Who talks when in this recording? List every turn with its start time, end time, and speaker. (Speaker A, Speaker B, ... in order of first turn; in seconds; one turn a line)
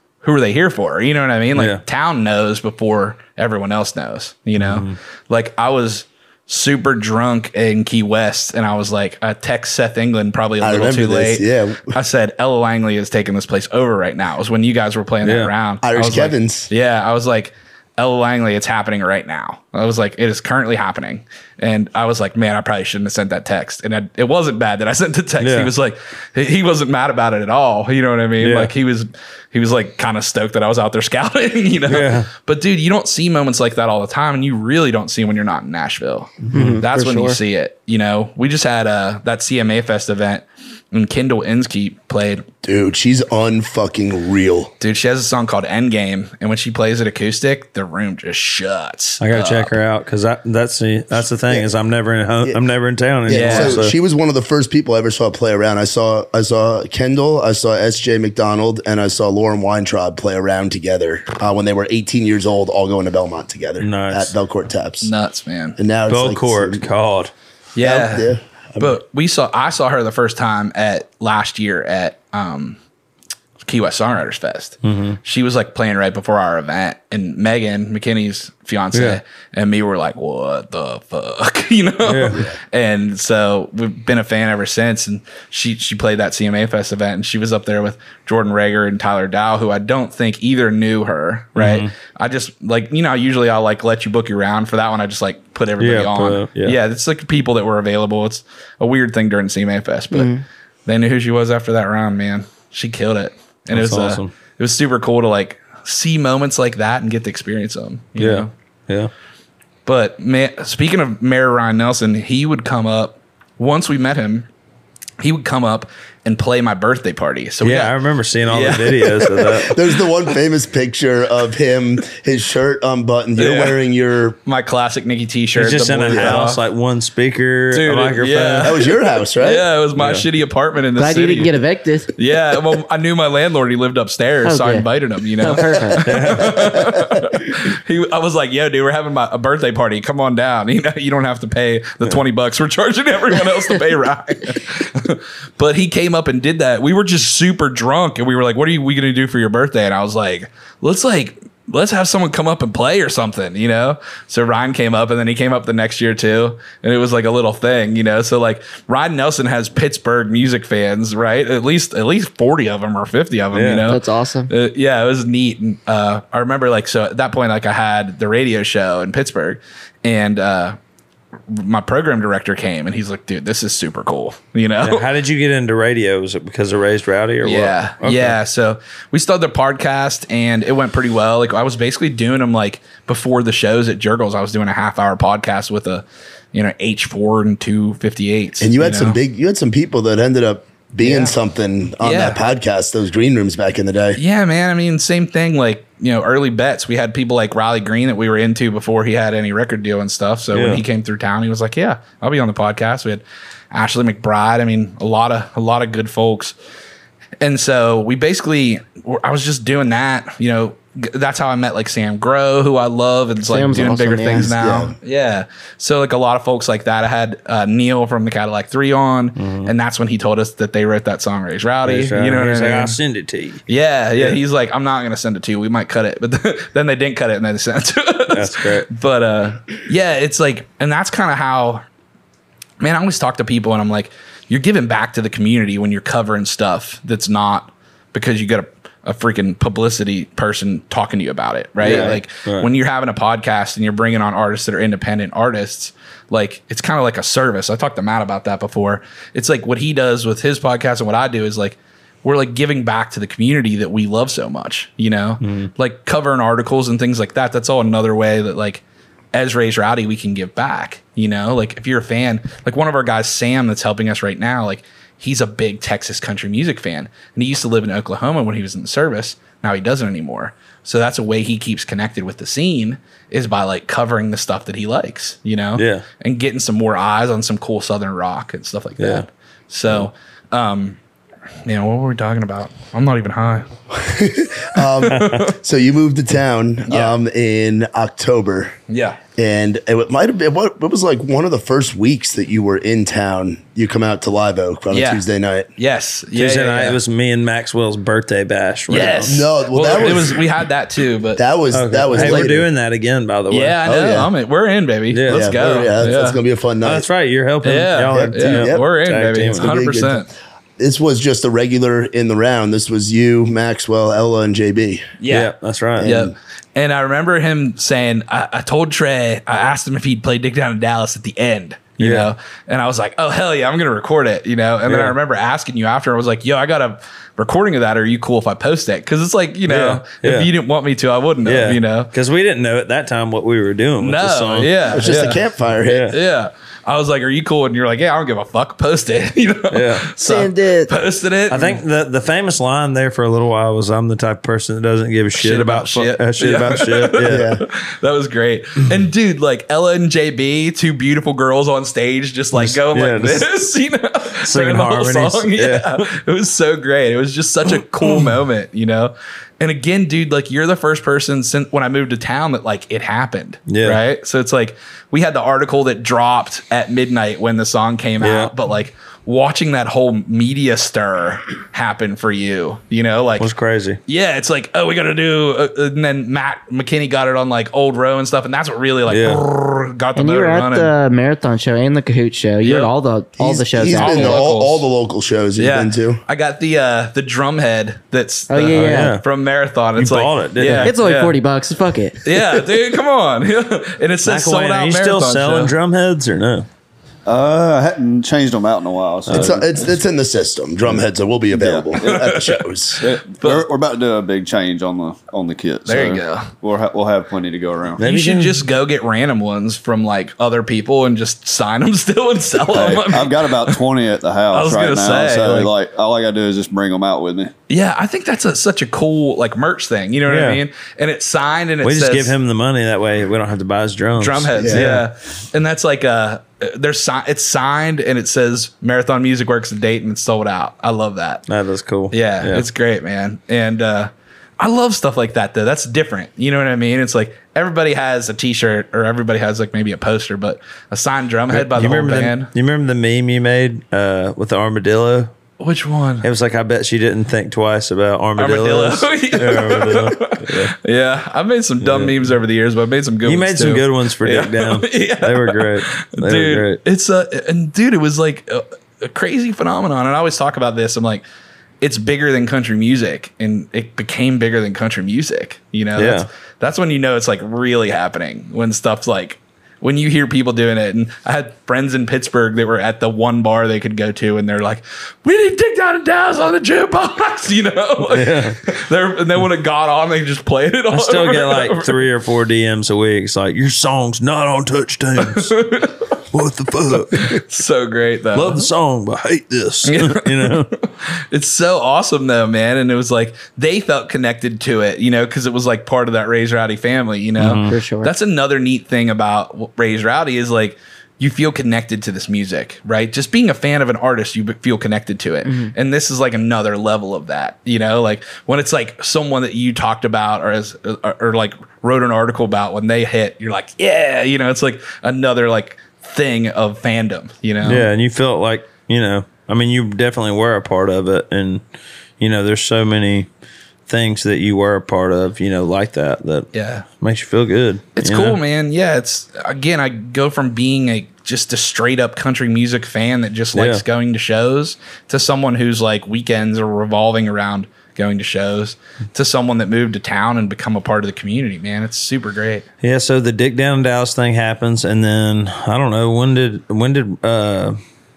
Speaker A: 0.2-42.4
Speaker B: 1.5-1.8
Speaker B: 4.6-5.0
Speaker C: 10.6-11.9
Speaker B: 15.2-15.5
Speaker C: 15.8-16.7
Speaker B: 25.4-25.7
Speaker B: 28.4-28.7
Speaker B: 31.9-32.3
Speaker B: 36.5-36.8
Speaker D: 36.5-37.4
Speaker C: 42.6-44.7
Speaker A: 44.8-49.8
Speaker B: 49.2-53.9
Speaker C: 53.3-65.1
Speaker A: 53.3-53.8
Speaker B: 63.8-64.3
Speaker A: 65.0-65.8
Speaker C: 65.8-66.8
Speaker B: 66.1-67.3
Speaker A: 67.8-72.8
Speaker C: 67.8-69.0
Speaker A: 73.6-100.3
Speaker B: 74.8-75.2
Speaker B: 78.9-79.2
Speaker B: 82.0-82.4
Speaker C: 82.3-82.5
Speaker B: 91.5-91.9
Speaker B: 95.8-96.8
Speaker D: 100.1-100.4
Speaker A: 100.9-108.5
Speaker B: 103.7-104.3
Speaker B: 108.2-109.1
Speaker A: 109.9-114.5
Speaker A: 115.2-117.9
Speaker B: 117.6-119.8
Speaker A: 118.5-119.7
Speaker C: 119.7-124.4
Speaker A: 123.4-123.8
Speaker A: 124.5-126.6
Speaker B: 125.5-128.7
Speaker C: 126.1-126.4
Speaker A: 127.7-131.5
Speaker C: 128.6-129.7
Speaker B: 129.9-130.2
Speaker D: 131.0-132.1
Speaker A: 132.2-170.8
Speaker D: 134.4-134.9
Speaker D: 135.4-136.1
Speaker B: 136.0-136.9
Speaker B: 163.5-163.9
Speaker D: 163.9-164.5
Speaker A: 171.5-175.1
Speaker B: 174.8-178.4
Speaker A: 177.4-189.2
Speaker C: 188.6-194.2
Speaker A: 191.0-191.3
Speaker A: 192.0-192.4
Speaker A: 194.2-206.5
Speaker B: 200.5-200.8
Speaker A: 207.4-223.0
Speaker D: 213.4-214.5
Speaker C: 214.3-214.9
Speaker B: 219.4-219.7
Speaker B: 221.8-223.6
Speaker A: 223.7-231.8
Speaker B: 228.3-228.9
Speaker A: 232.8-258.8
Speaker B: 241.8-242.7
Speaker B: 255.4-255.7
Speaker A: 259.3-281.0
Speaker B: 275.8-276.0
Speaker B: 279.0-279.2
Speaker A: 281.6-283.7
Speaker C: 283.9-288.7
Speaker A: 284.8-285.5
Speaker B: 285.1-285.5
Speaker A: 286.9-287.1
Speaker A: 288.9-289.2
Speaker C: 289.4-295.7
Speaker A: 294.9-295.2
Speaker A: 295.8-297.0
Speaker B: 296.3-299.5
Speaker A: 298.9-301.4
Speaker C: 298.9-300.4
Speaker C: 301.4-302.7
Speaker B: 301.7-303.8
Speaker A: 302.1-302.5
Speaker A: 303.5-306.4
Speaker C: 303.9-304.3
Speaker B: 305.1-305.6
Speaker C: 305.3-307.1
Speaker B: 306.8-309.7
Speaker A: 307.6-310.3
Speaker C: 308.1-308.9
Speaker C: 309.5-310.2
Speaker C: 310.8-315.1
Speaker A: 315.2-332.1
Speaker B: 315.3-316.1
Speaker C: 316.0-316.3
Speaker B: 322.0-322.3
Speaker B: 324.9-325.1
Speaker B: 329.7-330.5
Speaker B: 331.4-334.7
Speaker A: 334.0-335.4
Speaker C: 334.9-336.1
Speaker B: 335.8-336.2
Speaker A: 336.1-341.8
Speaker B: 339.7-340.1
Speaker D: 340.2-340.9
Speaker B: 341.5-347.4
Speaker A: 345.3-373.5
Speaker C: 347.2-347.6
Speaker B: 352.5-353.5
Speaker B: 354.4-356.1
Speaker B: 363.7-364.0
Speaker B: 368.2-368.5
Speaker B: 373.4-374.0
Speaker A: 374.1-380.9
Speaker B: 379.1-379.4
Speaker D: 380.1-384.4
Speaker A: 382.6-382.9
Speaker C: 383.4-386.2
Speaker A: 383.9-384.9
Speaker A: 385.6-391.4
Speaker D: 388.5-389.2
Speaker B: 388.6-389.2
Speaker B: 389.9-390.9
Speaker D: 390.6-392.2
Speaker A: 392.2-395.7
Speaker B: 394.2-396.7
Speaker E: 397.2-399.7
Speaker B: 399.3-399.6
Speaker C: 399.3-403.0
Speaker E: 401.5-402.2
Speaker A: 402.0-403.6
Speaker E: 403.0-408.0
Speaker A: 405.9-406.5
Speaker B: 408.0-408.6
Speaker A: 408.0-413.8
Speaker E: 412.7-417.5
Speaker A: 414.5-415.7
Speaker A: 417.7-422.3
Speaker B: 420.3-420.6
Speaker B: 421.8-425.1
Speaker A: 424.2-431.4
Speaker C: 424.6-424.9
Speaker B: 431.5-432.6
Speaker A: 432.1-442.5
Speaker B: 441.5-445.3
Speaker A: 445.6-446.2
Speaker B: 446.2-450.7
Speaker A: 448.4-461.2
Speaker B: 451.8-452.3
Speaker B: 453.2-456.8
Speaker A: 461.8-482.0
Speaker B: 465.9-466.3
Speaker B: 478.1-478.6
Speaker B: 480.9-485.5
Speaker A: 485.2-486.1
Speaker B: 486.3-487.4
Speaker A: 487.1-488.6
Speaker B: 488.3-490.7
Speaker A: 489.8-517.9
Speaker B: 497.4-497.7
Speaker D: 497.7-498.1
Speaker D: 505.4-505.7
Speaker B: 517.6-521.6
Speaker B: 522.2-523.3
Speaker B: 523.9-526.5
Speaker A: 526.5-526.9
Speaker B: 527.0-528.4
Speaker A: 528.0-542.6
Speaker B: 533.5-533.8
Speaker B: 542.8-547.8